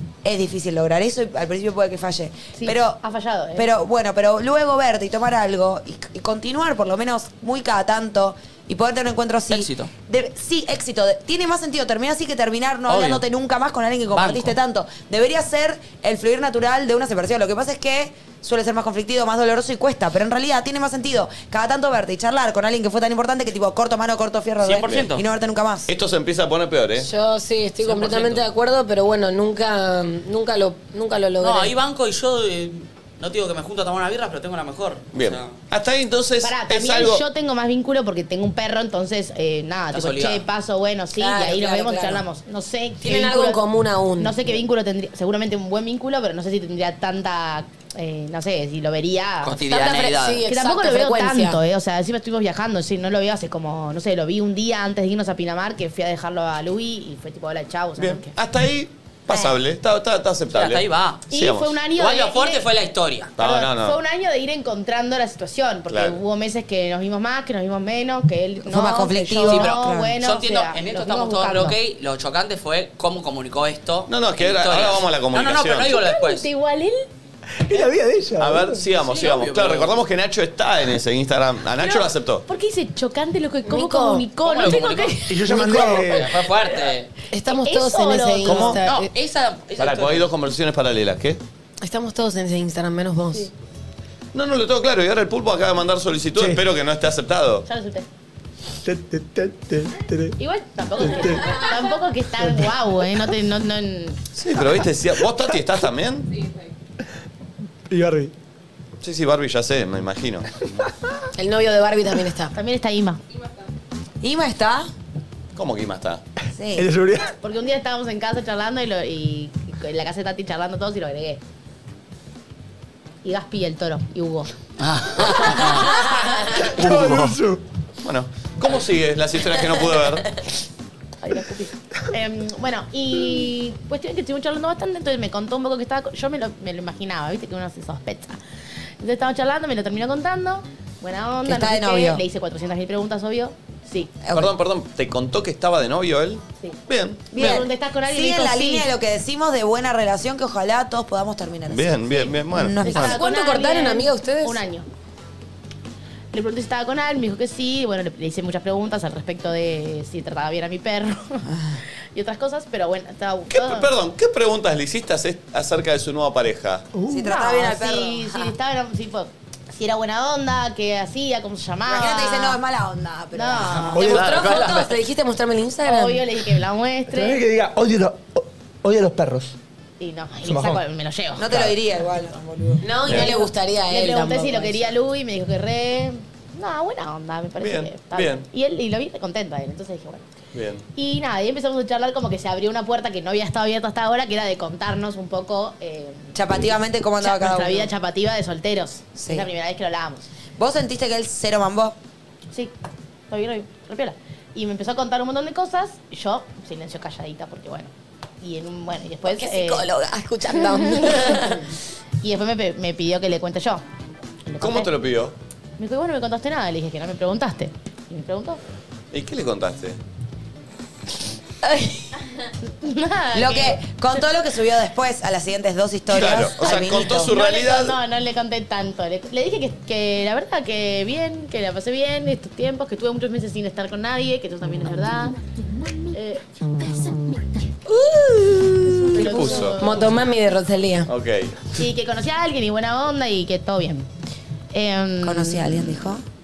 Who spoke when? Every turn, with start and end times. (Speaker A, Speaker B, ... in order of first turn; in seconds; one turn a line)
Speaker A: 0.2-3.0
Speaker B: 2.5-3.7
Speaker A: 3.6-25.9
Speaker C: 9.5-9.9
Speaker C: 12.9-13.2
Speaker C: 14.1-14.6
Speaker C: 24.6-25.2
Speaker D: 25.9-27.1
Speaker E: 27.0-31.7
Speaker C: 27.8-28.4
Speaker C: 31.4-35.5
Speaker D: 35.1-37.2
Speaker B: 36.4-43.6
Speaker C: 39.9-40.4
Speaker E: 41.2-42.2
Speaker E: 43.0-44.6
Speaker B: 44.2-49.6
Speaker C: 49.5-50.4
Speaker E: 49.6-51.6
Speaker B: 50.5-58.3
Speaker D: 58.0-61.8
Speaker B: 59.3-59.5
Speaker C: 60.5-61.2
Speaker B: 61.3-62.6
Speaker C: 62.0-63.3
Speaker D: 63.4-64.0
Speaker B: 63.4-71.8
Speaker D: 65.9-66.2
Speaker A: 68.7-70.2
Speaker C: 69.5-76.5
Speaker D: 74.1-76.0
Speaker B: 75.9-77.1
Speaker F: 77.6-78.8
Speaker D: 78.4-82.4
Speaker C: 79.0-80.0
Speaker B: 81.8-86.2
Speaker E: 83.7-84.8
Speaker C: 84.5-85.2
Speaker F: 85.3-86.3
Speaker E: 85.5-86.0
Speaker C: 86.0-87.1
Speaker E: 87.3-89.0
Speaker B: 87.5-89.0
Speaker D: 88.4-88.8
Speaker C: 88.8-90.3
Speaker D: 89.8-91.4
Speaker E: 91.8-93.5
Speaker D: 94.3-97.7
Speaker F: 96.4-96.7
Speaker B: 97.7-98.1
Speaker F: 98.8-100.3
Speaker B: 100.4-104.2
Speaker F: 101.0-101.6
Speaker F: 102.4-102.7
Speaker D: 104.3-106.3
Speaker F: 107.9-108.3
Speaker D: 109.0-110.5
Speaker E: 111.4-112.6
Speaker B: 112.5-113.2
Speaker A: 114.2-114.9
Speaker D: 115.5-116.2
Speaker A: 116.5-116.9
Speaker F: 116.7-117.3
Speaker B: 117.4-121.4
Speaker B: 123.2-124.5
Speaker C: 124.8-126.0
Speaker B: 125.3-126.4
Speaker F: 126.5-127.6
Speaker D: 126.8-127.4
Speaker D: 128.0-130.3
Speaker B: 131.2-138.4
Speaker B: 139.0-144.1
Speaker A: 141.4-142.2
Speaker A: 144.2-144.5
Speaker D: 144.3-147.4
Speaker A: 147.3-153.2
Speaker B: 147.3-148.9
Speaker D: 151.7-153.2
Speaker B: 152.8-154.9
Speaker E: 152.9-154.6
Speaker B: 156.3-161.5
Speaker B: 162.1-163.9
Speaker D: 163.5-166.9
Speaker F: 166.9-167.2
Speaker A: 167.1-168.5
Speaker B: 167.2-172.6
Speaker A: 171.9-173.9
Speaker B: 173.3-174.8
Speaker E: 173.9-176.3
Speaker F: 173.9-174.4
Speaker D: 174.1-174.9
Speaker B: 175.8-177.4
Speaker F: 177.1-179.5
Speaker B: 180.0-181.7
Speaker F: 180.4-180.8
Speaker A: 181.4-183.0
Speaker E: 182.8-184.9
Speaker B: 183.1-190.2
Speaker D: 183.1-183.3
Speaker D: 187.6-188.5
Speaker D: 190.5-190.8
Speaker B: 190.9-196.7
Speaker A: 196.3-197.9
Speaker B: 197.2-200.3
Speaker A: 199.2-199.5
Speaker A: 200.6-202.0
Speaker B: 203.3-209.8
Speaker E: 209.3-211.6
Speaker B: 210.5-211.5
Speaker B: 212.2-213.8
Speaker B: 214.5-214.9
Speaker D: 214.6-215.3
Speaker B: 215.8-218.6
Speaker D: 219.1-220.0
Speaker B: 222.7-224.2
Speaker A: 223.3-227.3
Speaker D: 226.1-228.0
Speaker B: 227.2-235.4
Speaker B: 236.1-236.4
Speaker E: 237.9-241.1
Speaker B: 239.1-240.1
Speaker D: 239.2-239.8
Speaker D: 241.1-241.6
Speaker B: 241.8-244.1
Speaker B: 244.7-245.9
Speaker A: 245.2-246.2